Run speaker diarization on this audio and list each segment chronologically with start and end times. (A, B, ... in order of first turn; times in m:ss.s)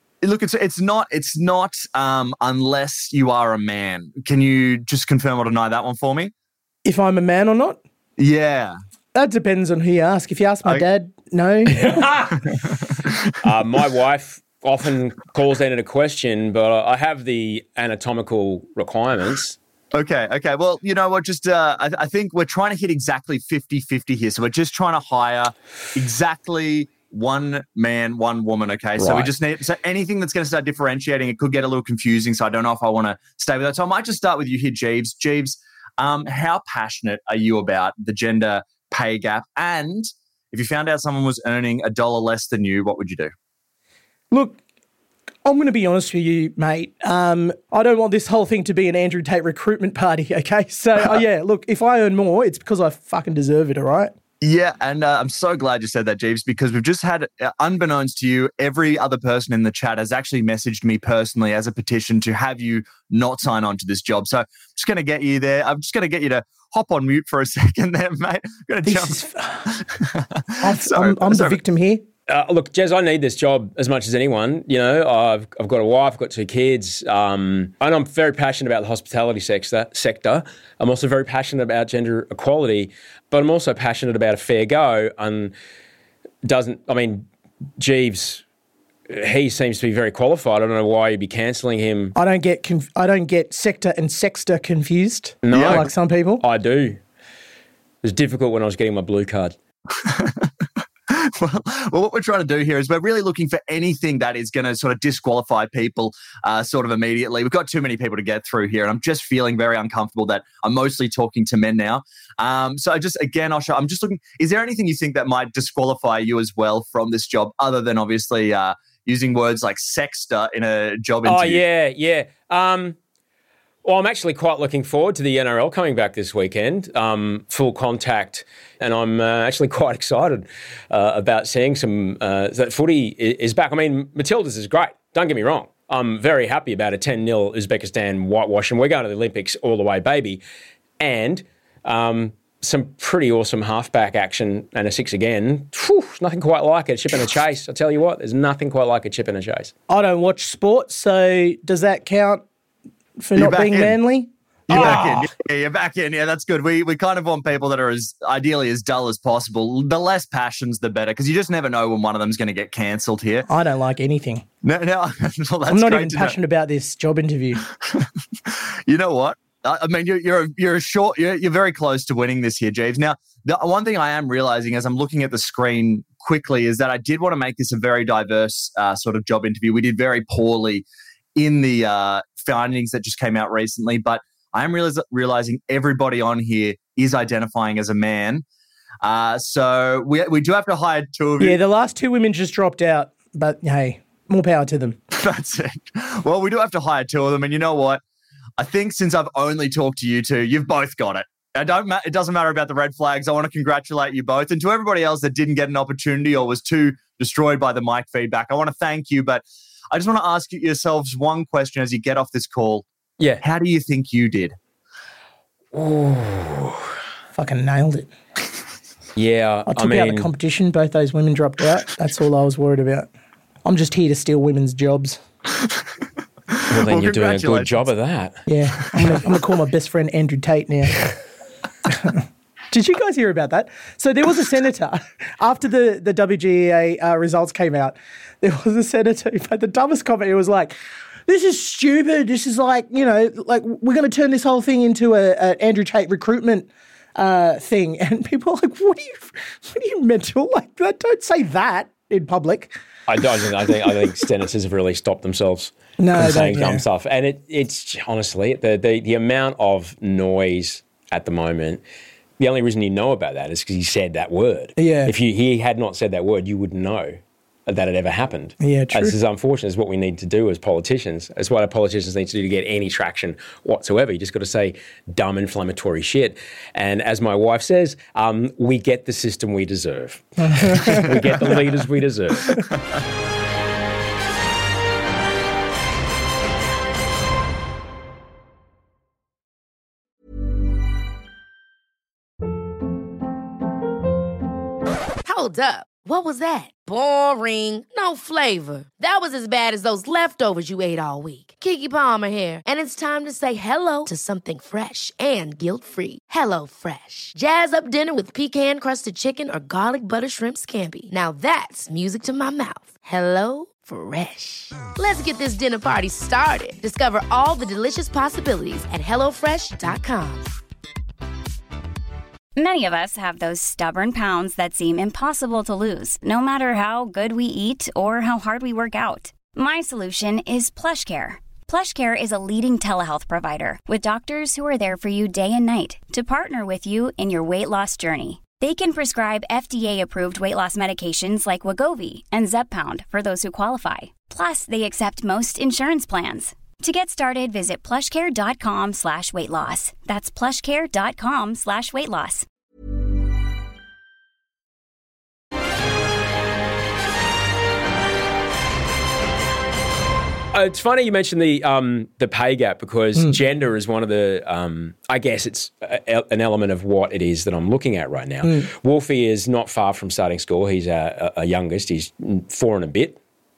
0:00.2-0:06.3 A
0:06.8-0:07.8 B
0:08.2-0:08.8 A
0:09.1-0:12.1 B
0:11.7-0:12.6 C
0:13.4-0:19.6 C
0:19.9-0:43.3 A
0:29.0-0:29.3 C
0:44.3-0:44.6 B
0:45.4-0:54.1 B
0:54.4-1:11.6 A
1:08.9-1:09.7 B
1:10.6-1:12.0 B
1:12.3-1:25.5 C
1:26.4-1:27.3 C
1:27.8-1:28.4 C
1:29.1-1:32.1 C
1:32.2-1:36.4 B
1:35.4-1:37.0 C
1:35.5-1:35.9 A
1:38.0-1:39.6 C
1:40.0-1:40.5 A
1:41.1-2:01.6 A
2:01.2-2:03.0 C
2:03.8-2:20.4 C
2:21.0-2:29.7 C
2:29.9-2:32.4 B
2:33.2-2:35.1 B
2:33.4-2:34.0 A
2:34.7-2:43.5 A
2:34.7-2:35.3 C
2:43.5-2:44.4 B
2:44.6-2:46.4 A
2:45.7-2:47.6 B
2:47.8-3:00.8 A
3:01.4-3:08.4 A
3:09.0-3:11.6 A
3:11.4-3:15.0 B
3:15.2-3:18.0 A
3:18.6-3:32.8 A
3:33.4-3:34.5 A
3:35.7-3:36.9 C
3:37.4-3:38.1 B
3:39.1-3:40.3 C
3:39.7-3:43.1 B
3:43.6-3:45.2 B
3:46.5-3:47.8 A
3:46.7-3:48.4 C
3:48.5-3:51.2 B
3:51.9-4:12.7 B
4:13.1-4:21.8 C
4:16.0-4:16.8 B
4:22.4-4:42.6 C
4:24.8-4:25.1 B
4:28.6-4:29.2 B
4:40.4-4:41.1 B
4:55.2-5:20.5 D
5:22.6-5:52.4 E
6:00.5-6:13.2 C
6:08.4-6:08.7 B